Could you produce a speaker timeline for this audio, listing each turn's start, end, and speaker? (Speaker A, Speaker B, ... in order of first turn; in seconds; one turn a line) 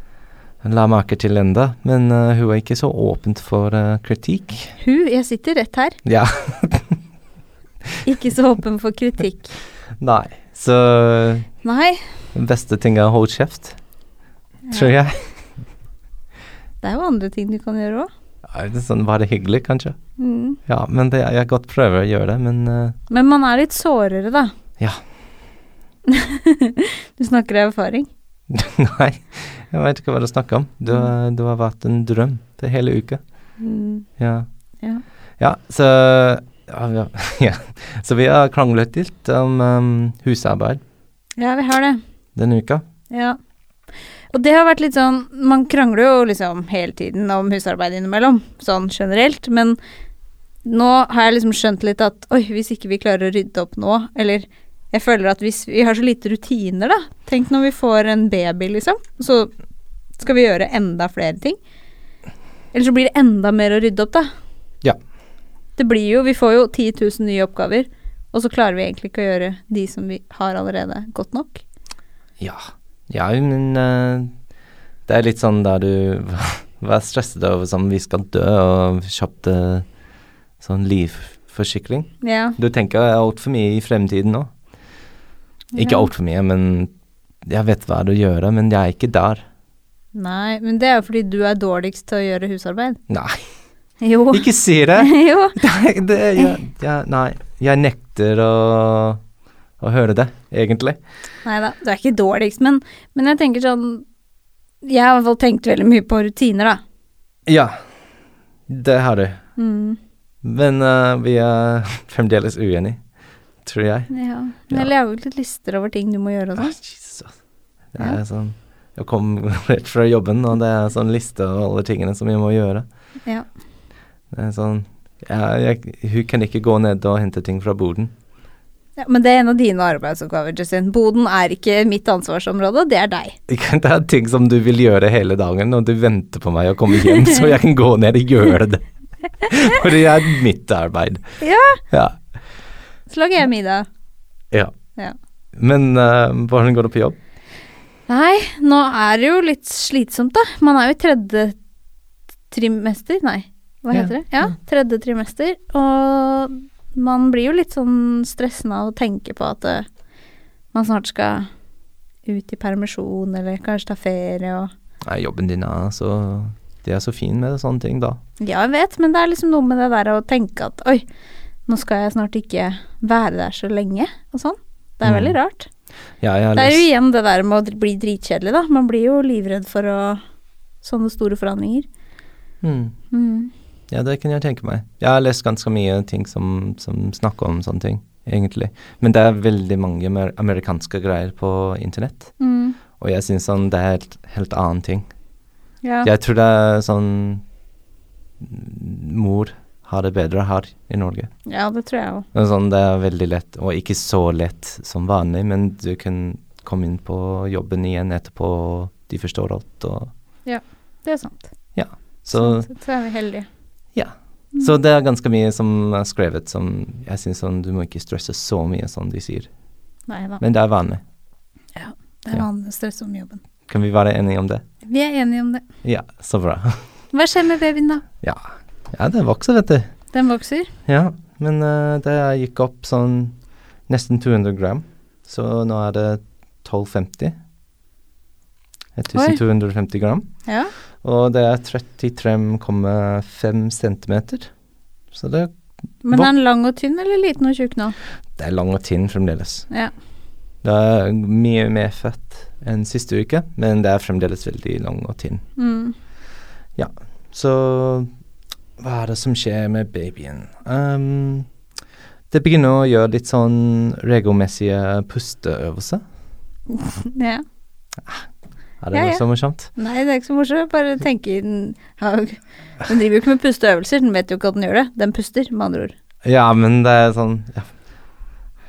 Speaker A: 0.6-4.8
Speaker B: 4.8-6.0
Speaker A: 6.0-7.0
Speaker B: 8.1-9.5
Speaker A: 10.0-11.5
Speaker B: 11.6-12.0
Speaker A: 12.3-13.8
Speaker B: 14.7-14.9
Speaker A: 14.7-15.3
Speaker B: 16.8-18.1
Speaker A: 18.5-20.0
Speaker B: 20.2-20.6
Speaker A: 20.7-23.0
Speaker B: 23.1-24.5
Speaker B: 26.1-28.1
Speaker A: 28.5-33.2
Speaker B: 33.6-34.1
Speaker A: 34.2-34.5
Speaker A: 35.4-40.8
Speaker B: 41.4-42.0
Speaker A: 42.4-42.8
Speaker B: 43.1-43.4
Speaker B: 44.3-49.8
Speaker B: 50.6-59.5
Speaker B: 60.2-61.6
Speaker B: 62.7-64.3
Speaker B: 65.8-71.6
Speaker A: 72.4-74.3
Speaker A: 75.1-79.9
Speaker A: 80.6-84.5
Speaker B: 82.2-82.6
Speaker B: 85.7-86.1
Speaker A: 85.8-86.9
Speaker A: 87.5-89.4
Speaker B: 90.1-93.0
Speaker A: 93.1-93.5
Speaker B: 94.0-95.6
Speaker A: 94.3-99.2
Speaker A: 99.8-101.0
Speaker B: 101.4-104.0
Speaker B: 104.8-106.8
Speaker A: 107.5-107.8
Speaker A: 108.7-109.4
Speaker B: 109.6-110.0
Speaker A: 110.4-113.0
Speaker A: 113.6-114.1
Speaker B: 114.1-116.8
Speaker A: 116.6-117.4
Speaker A: 117.9-122.8
Speaker A: 124.3-128.1
Speaker B: 129.0-133.4
Speaker A: 133.5-138.9
Speaker B: 137.0-137.4
Speaker A: 139.4-141.2
Speaker B: 141.4-141.8
Speaker A: 141.9-142.2
Speaker B: 143.1-143.9
Speaker A: 145.6-147.2
Speaker B: 148.1-151.6
Speaker B: 152.5-159.9
Speaker A: 153.9-154.5
Speaker B: 160.7-161.5
Speaker B: 162.3-164.7
Speaker A: 165.1-168.2
Speaker B: 168.4-171.1
Speaker B: 171.7-175.7
Speaker A: 175.0-175.4
Speaker A: 176.2-176.8
Speaker B: 176.6-180.2
Speaker B: 180.8-181.9
Speaker A: 182.6-182.9
Speaker B: 183.1-183.5
Speaker A: 183.9-192.3
Speaker B: 192.4-192.8
Speaker A: 193.0-195.1
Speaker B: 195.8-196.1
Speaker A: 196.0-197.4
Speaker A: 198.4-201.3
Speaker B: 201.5-202.3
Speaker A: 202.3-210.1
Speaker B: 210.5-211.5
Speaker A: 211.8-212.7
Speaker B: 212.3-213.5
Speaker A: 213.9-219.5
Speaker B: 220.1-220.4
Speaker A: 220.4-221.0
Speaker B: 221.8-223.4
Speaker A: 223.7-224.6
Speaker B: 224.8-225.6
Speaker A: 225.8-226.8
Speaker B: 227.1-228.1
Speaker A: 228.2-229.9
Speaker B: 230.1-230.7
Speaker A: 230.9-237.4
Speaker A: 239.0-240.3
Speaker B: 239.1-239.4
Speaker B: 240.4-240.7
Speaker A: 241.0-244.5
Speaker A: 245.1-245.6
Speaker B: 246.0-248.0
Speaker A: 248.4-249.7
Speaker A: 250.6-255.4
Speaker B: 255.6-255.9
Speaker A: 256.8-258.1
Speaker A: 258.8-261.5
Speaker A: 262.3-266.0
Speaker B: 266.7-267.4
Speaker A: 268.8-269.7
Speaker B: 268.9-275.9
Speaker A: 276.2-277.7